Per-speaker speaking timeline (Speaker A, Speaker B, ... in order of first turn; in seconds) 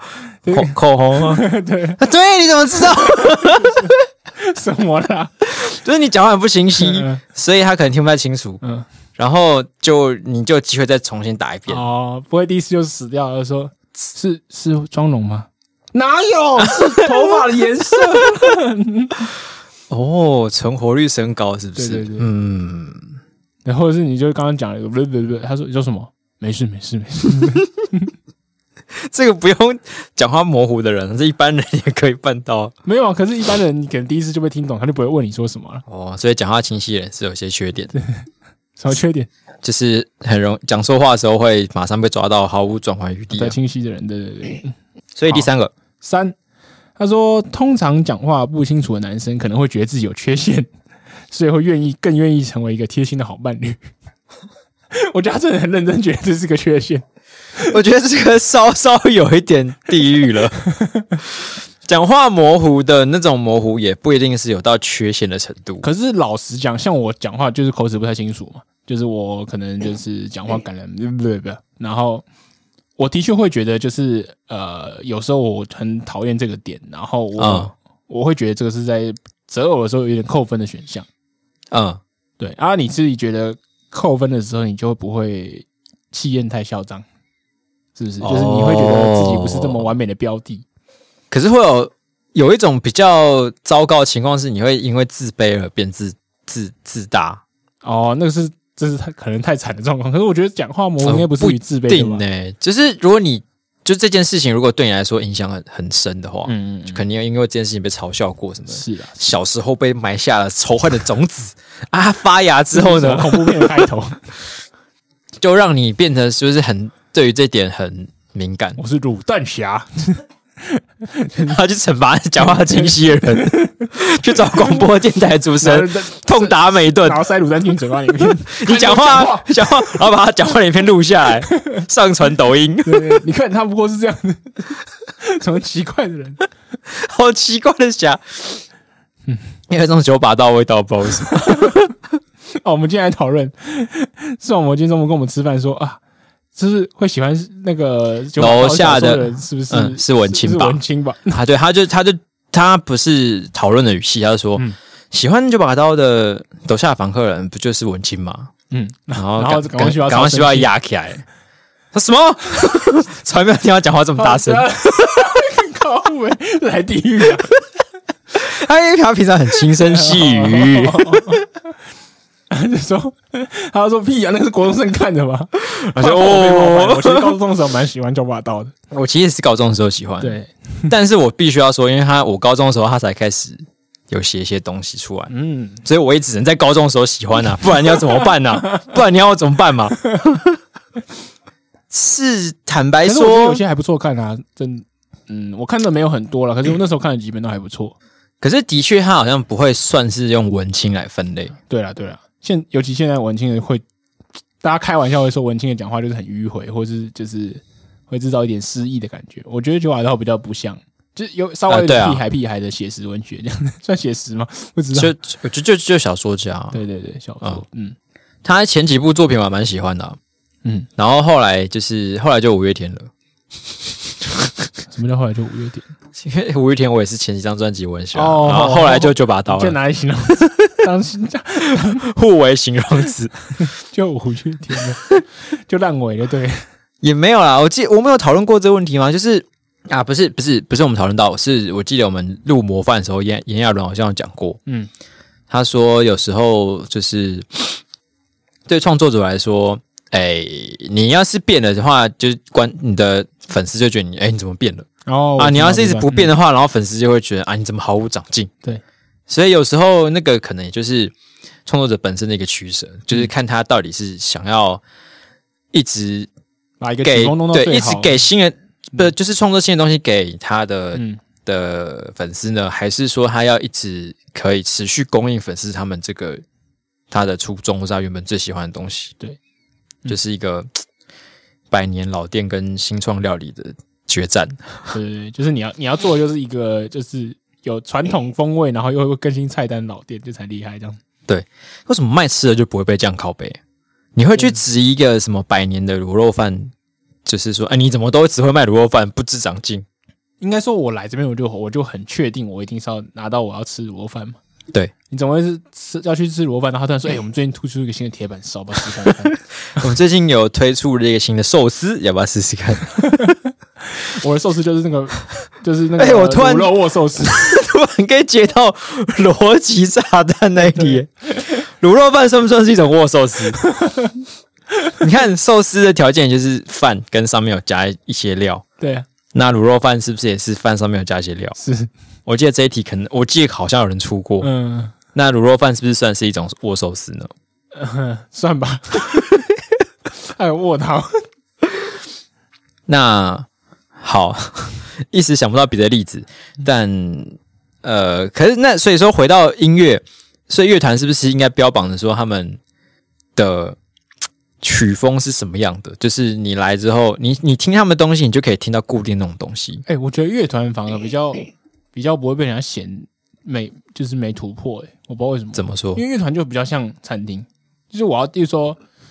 Speaker A: 0.4-2.0, 2.9-5.3, 6.8-7.2, 11.7-19.3, 21.8-22.3, 23.6-28.1, 32.8-35.8, 37.9-38.2, 38.8-39.3, 43.3-44.7, 46.0-46.3, 47.0-50.7, 51.3-53.9, 54.9-57.0, 60.6-61.2, 65.8-72.2, 73.0-81.1, 82.4-87.0, 88.0-90.6, 97.8-102.2, 106.5-107.0, 108.7-109.2, 112.7-114.2, 118.8-121.6, 122.6-123.9, 125.6-129.9, 131.5-131.8, 132.8-136.4, 141.4-141.8, 142.6-146.0, 146.6-151.4, 158.7-160.7, 164.2-167.5, 169.8-171.4, 172.5-178.7, 180.2-180.9, 185.3-185.8, 193.0-197.9, 201.7-203.8, 204.6-215.1, 216.7-217.9, 224.9-225.9, 228.1-232.0, 233.6-236.6, 255.1-256.3, 266.8-268.2, 270.9-271.2, 284.9-291.0, 300.4-304.4, 305.1-309.4, 314.0-317.6, 323.7-324.1, 328.8-329.1, 331.6-331.9, 334.4-334.9, 337.7-339.4, 340.2-341.2, 359.9-368.8
Speaker B: 0.5-1.4, 2.0-3.9, 5.4-8.6, 9.2-11.8, 16.6-17.0, 19.9-23.1, 28.9-32.7, 35.9-37.9, 39.6-43.5, 45.1-45.7, 57.7-60.6, 61.2-65.9, 77.4-77.7, 81.7-82.0, 88.2-89.9, 91.3-97.4, 101.0-113.8, 115.4-118.8, 121.5-127.2, 128.2-133.2, 136.9-138.6, 139.7-141.9, 148.4-158.5, 159.2-161.2, 161.9-165.3, 168.3-171.4, 175.6-177.4, 178.9-185.3, 185.8-190.6, 191.9-193.6, 198.4-201.5, 211.7-212.2, 214.9-216.8, 218.4-220.2, 221.0-223.1, 224.2-224.5, 226.2-229.8, 231.7-233.3, 237.0-244.6, 245.5-247.8, 248.7-258.5, 259.3-261.1, 261.6-264.8, 265.7-266.3, 267.0-276.4, 277.1-279.1, 280.1-280.8, 281.7-284.9, 291.3-293.6, 294.1-296.7, 297.2-299.9, 309.7-313.3, 316.0-323.6, 325.0-328.6, 329.3-331.6, 332.2-334.5, 335.1-337.3, 342.9-352.6, 353.4-353.8, 354.6-359.8, 365.5-366.0